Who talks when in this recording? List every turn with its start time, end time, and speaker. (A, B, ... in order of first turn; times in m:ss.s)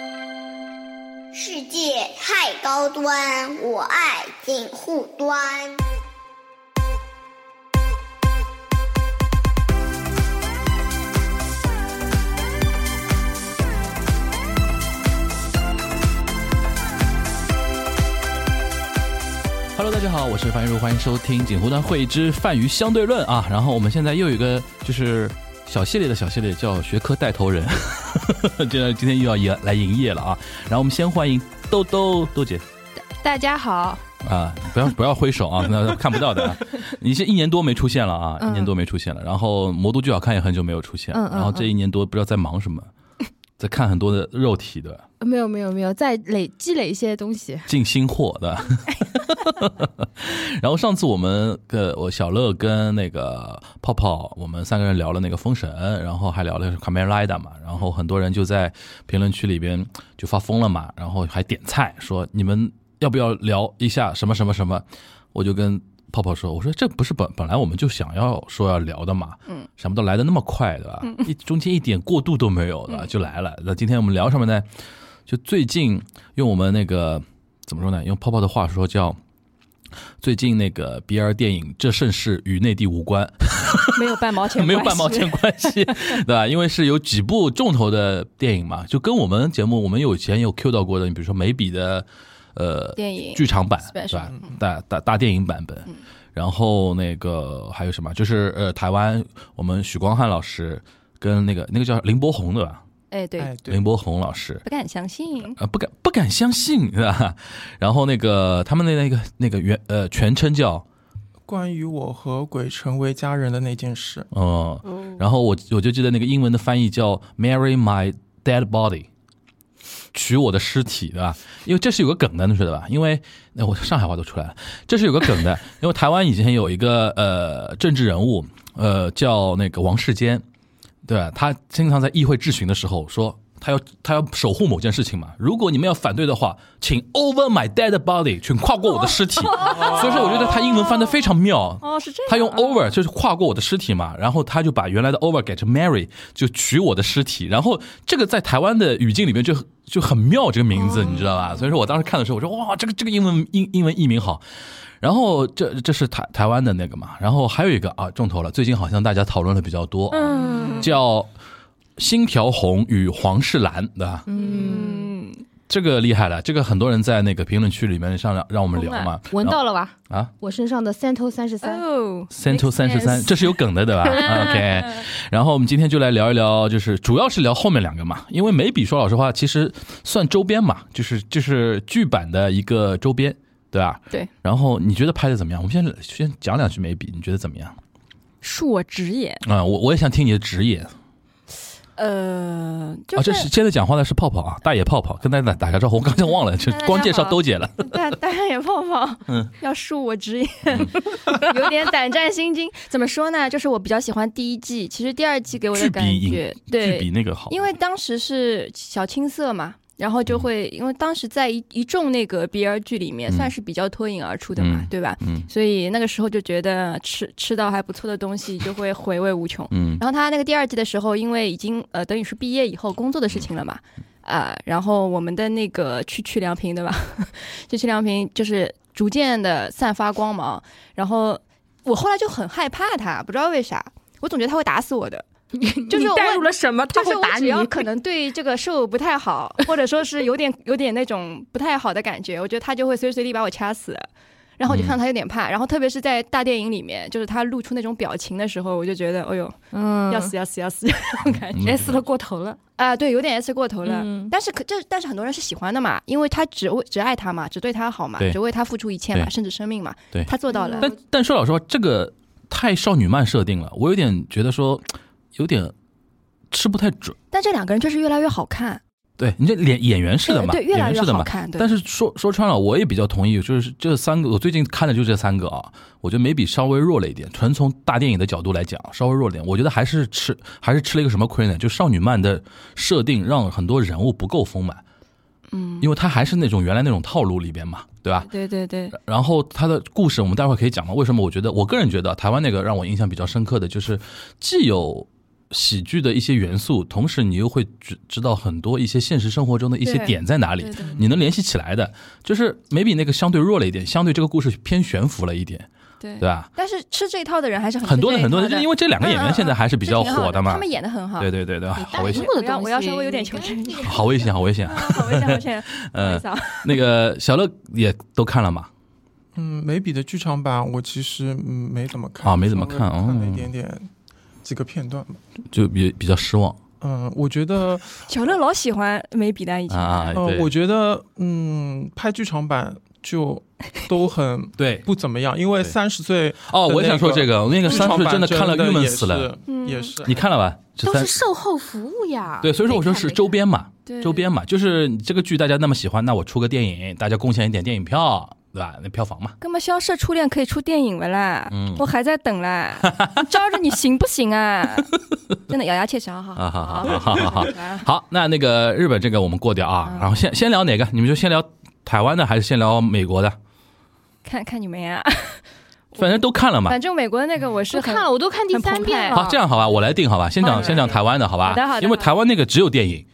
0:01.3-0:05.8 A
0:19.7-0:32.6 B
0:33.2-0:34.0 C
0:34.2-0:42.9 B
0:38.4-0:38.7 C
0:41.1-0:41.7 C
0:43.6-0:45.0 B
0:45.2-0:47.7 C
0:47.7-1:14.7 B
1:15.3-1:19.2 B
1:20.2-1:42.8 B
1:23.9-1:26.2 D
1:33.0-1:34.4 D
1:43.1-1:43.5 D
1:43.4-1:43.8 E
1:43.6-1:44.6 B
1:44.6-1:45.6 D
1:45.6-1:50.8 B
1:51.5-1:54.3 E
1:54.3-1:59.1 B
2:00.1-2:10.4 B
2:11.0-2:34.4 B
2:19.4-2:21.3 D
2:19.6-2:20.6 E
2:21.8-2:22.9 D
2:30.7-2:31.5 D
2:35.0-2:41.3 B
2:40.1-2:40.9 D
2:40.4-2:40.9 E
2:42.0-2:44.2 B
2:44.2-2:45.1 C
2:44.3-2:45.4 D
2:45.7-2:50.3 B
2:48.7-2:49.1 D
2:49.3-2:51.8 C
2:51.6-2:55.0 D
2:52.3-3:07.8 B
3:08.4-3:09.4 D
3:09.4-3:10.9 B
3:12.0-3:13.5 D
3:13.1-3:18.0 B
3:16.6-3:55.2 D
3:25.7-3:27.7 B
3:34.6-3:35.4 B
3:39.7-3:40.0 B
3:55.5-3:57.9 C
3:55.9-4:04.1 D
4:04.6-4:09.6 D
4:04.7-4:05.0 B
4:09.7-4:10.3 C
4:10.1-4:11.8 D
4:11.5-4:12.0 B
4:11.6-4:12.6 C
4:12.8-4:20.9 D
4:13.8-4:14.3 C
4:20.1-4:25.7 B
4:20.5-4:20.9 C
4:26.5-4:27.2 B
4:27.3-4:28.8 D
4:29.2-4:44.8 B
4:30.2-4:31.7 D
4:45.5-4:45.9 D
4:45.8-4:48.3 B
4:48.2-4:49.0 D
4:48.9-5:05.7 B
4:59.8-5:01.0 D
5:00.8-5:01.1 E
5:06.0-5:11.3 D
5:06.2-5:06.5 B
5:07.8-5:10.6 B
5:11.2-5:12.3 B
5:11.8-5:14.3 C
5:11.9-5:16.8 D
5:13.8-5:18.7 B
5:19.4-5:23.9 E
5:22.2-5:23.5 B
5:24.4-5:25.2 E
5:25.5-5:26.6 B
5:26.8-5:28.1 E
5:28.1-5:30.2 D
5:29.7-5:30.5 B
5:30.1-5:40.2 E
5:34.6-5:34.9 B
5:36.5-5:39.3 B
5:39.5-5:39.9 D
5:40.0-5:41.1 B
5:40.8-5:43.3 C
5:42.4-5:49.4 B
5:43.8-5:44.3 D
5:49.4-5:54.9 D
5:51.5-5:51.8 B
5:52.9-5:53.2 B
5:55.5-5:57.8 D
5:56.4-6:03.4 B
5:59.8-6:00.1 D
6:04.2-6:05.4 D
6:06.0-6:06.8 B
6:06.6-6:09.2 D
6:07.7-6:09.4 C
6:09.1-6:13.0 B
6:10.4-6:12.1 D